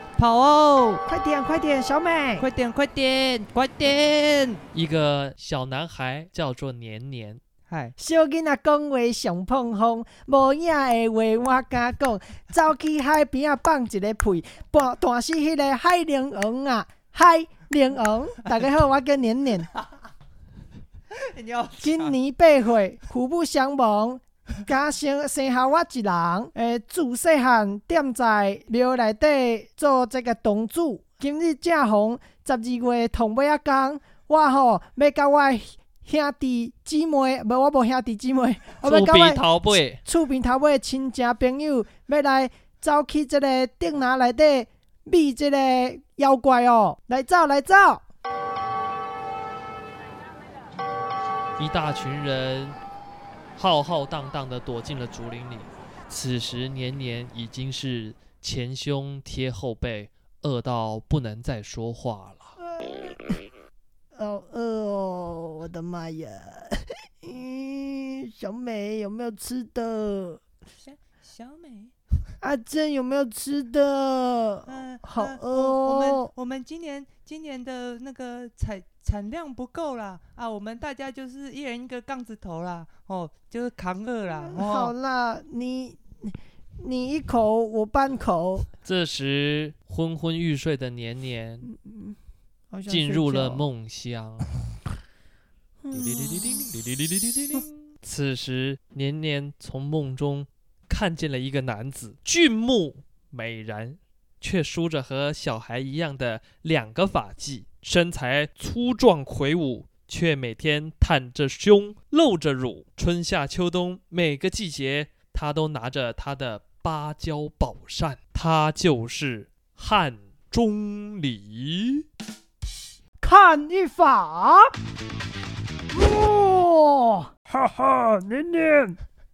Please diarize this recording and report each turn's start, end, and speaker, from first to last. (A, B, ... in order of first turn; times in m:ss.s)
0:00.2-0:01.0 A
0:01.1-0:02.4 B
0:02.4-0:04.6 A
0:04.7-0:07.4 C
0:07.7-0:07.9 A
0:08.0-0:19.7 B
0:21.1-0:22.2 A
0:21.8-0:48.0 B
0:38.8-0:40.0 C
0:51.6-0:52.8 C
0:53.6-1:02.5 C
1:02.7-1:03.4 B
1:04.1-1:10.4 B
1:10.8-1:11.9 A
1:12.4-1:16.3 B
1:14.7-1:24.9 A
1:24.4-1:28.7 B
1:28.8-1:31.7 C
1:31.6-1:32.2 B
1:32.7-1:33.6 B
1:32.9-1:34.5 C
1:35.8-1:36.7 B
1:35.9-2:02.0 C
2:03.2-2:04.7 B
2:05.9-2:09.0 B